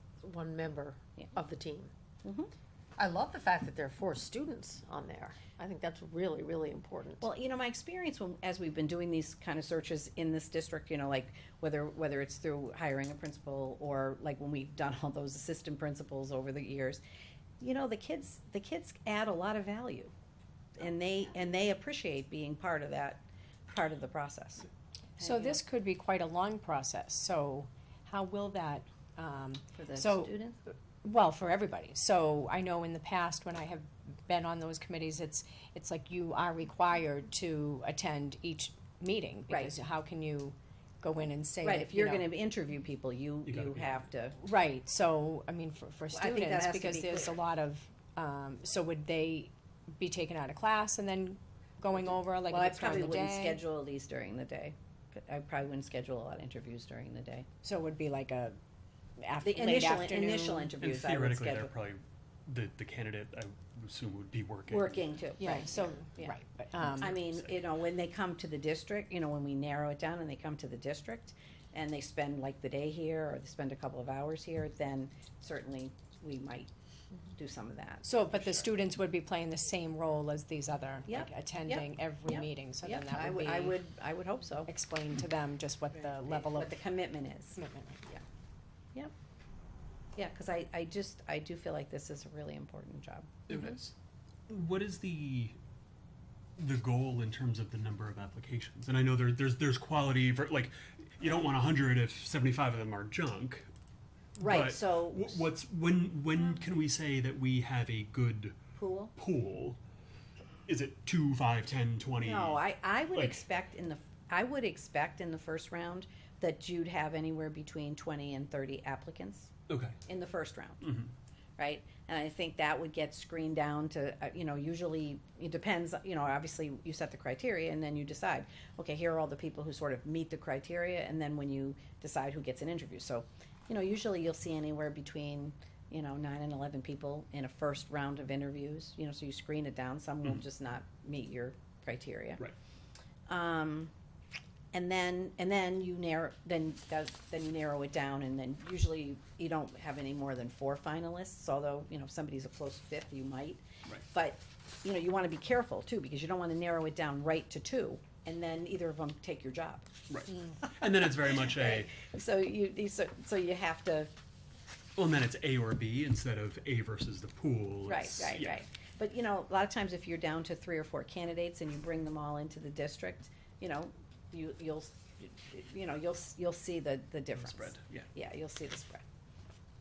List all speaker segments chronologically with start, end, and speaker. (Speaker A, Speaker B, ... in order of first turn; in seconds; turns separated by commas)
Speaker A: 0.2-1.9, Speaker B: 2.2-2.5, Speaker A: 3.0-7.2, Speaker B: 7.2-17.0, Speaker B: 17.6-20.1, Speaker B: 20.8-24.7, Speaker B: 25.2-25.6, Speaker C: 25.2-30.4, Speaker B: 29.8-30.6, Speaker C: 31.0-42.3, Speaker B: 39.5-39.7, Speaker B: 41.6-44.4, Speaker D: 43.5-44.0, Speaker C: 44.4-53.6, Speaker B: 46.1-47.3, Speaker B: 52.5-57.5, Speaker C: 57.6-58.6, Speaker C: 59.2-60.7, Speaker B: 59.4-61.7, Speaker D: 60.8-65.0, Speaker B: 64.7-66.4, Speaker C: 65.4-67.2, Speaker B: 67.0-76.7, Speaker D: 67.0-67.6, Speaker B: 77.3-78.7, Speaker C: 78.0-83.8, Speaker B: 81.1-84.7, Speaker C: 84.7-86.8, Speaker B: 86.2-88.2, Speaker C: 87.5-88.0, Speaker B: 90.2-93.8, Speaker D: 93.5-93.9, Speaker D: 94.5-95.6, Speaker D: 96.6-103.7, Speaker B: 104.4-105.5, Speaker D: 104.4-108.6, Speaker B: 108.8-109.1, Speaker D: 109.2-109.8, Speaker D: 110.7-112.6, Speaker B: 112.2-119.5, Speaker D: 113.1-113.5, Speaker D: 119.7-120.0, Speaker B: 120.1-120.8, Speaker D: 120.8-121.1, Speaker B: 121.6-142.4, Speaker B: 143.3-143.9, Speaker B: 144.7-159.9, Speaker D: 160.1-161.9, Speaker B: 161.4-164.1, Speaker D: 165.0-168.6, Speaker B: 167.9-179.0, Speaker D: 177.4-178.1